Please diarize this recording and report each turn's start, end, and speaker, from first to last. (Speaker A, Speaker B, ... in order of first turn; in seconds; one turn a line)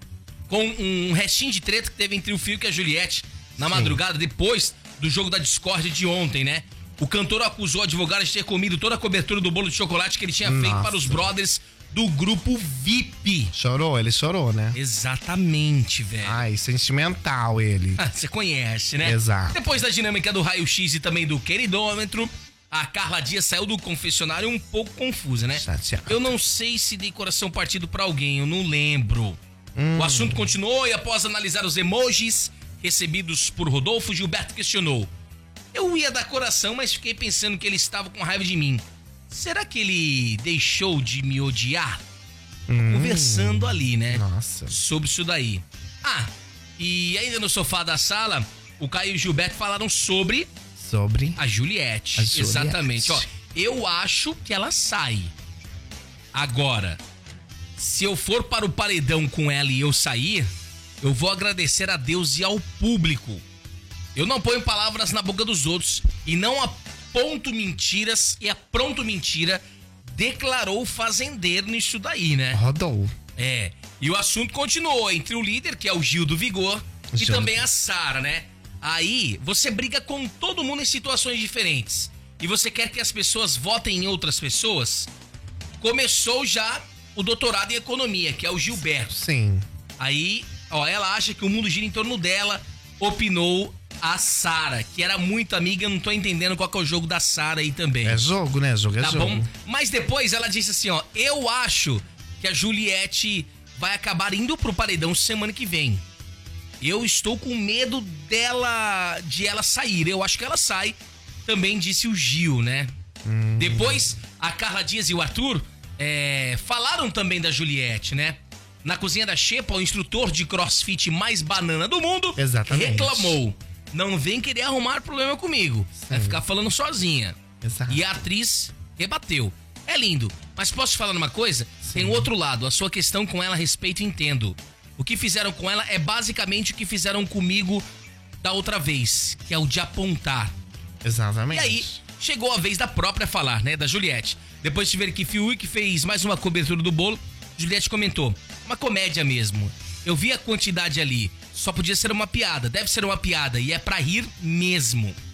Speaker A: 0.5-13.5
Speaker B: 3.6-4.0
Speaker B: 10.4-11.3
Speaker B: 13.5-14.8
Speaker A: 14.7-16.4
Speaker B: 16.2-18.0
Speaker A: 18.0-29.4
Speaker B: 19.0-19.6
Speaker B: 25.5-26.3
Speaker B: 29.8-30.5
Speaker A: 30.0-35.1
Speaker A: 35.7-42.0
Speaker B: 42.7-44.8
Speaker A: 42.9-50.5
Speaker B: 50.8-51.4
Speaker A: 51.4-55.3
Speaker B: 52.2-53.3
Speaker A: 56.3-57.0
Speaker A: 57.8-60.5
Speaker A: 61.0-63.4
Speaker A: 64.2-72.6
Speaker B: 72.5-73.1
Speaker A: 73.4-85.1
Speaker B: 77.1-77.7
Speaker A: 85.8-89.1
Speaker B: 89.1-89.7
Speaker A: 90.0-98.2
Speaker B: 98.0-99.5
Speaker A: 99.0-106.0
Speaker A: 106.8-112.9
Speaker B: 113.2-114.1
Speaker A: 113.6-127.4
Speaker B: 122.4-123.4
Speaker B: 126.0-126.4
Speaker B: 127.6-128.1
Speaker A: 127.9-137.8
Speaker B: 131.8-132.3
Speaker A: 138.4-140.5
Speaker B: 141.0-142.0
Speaker A: 141.5-155.2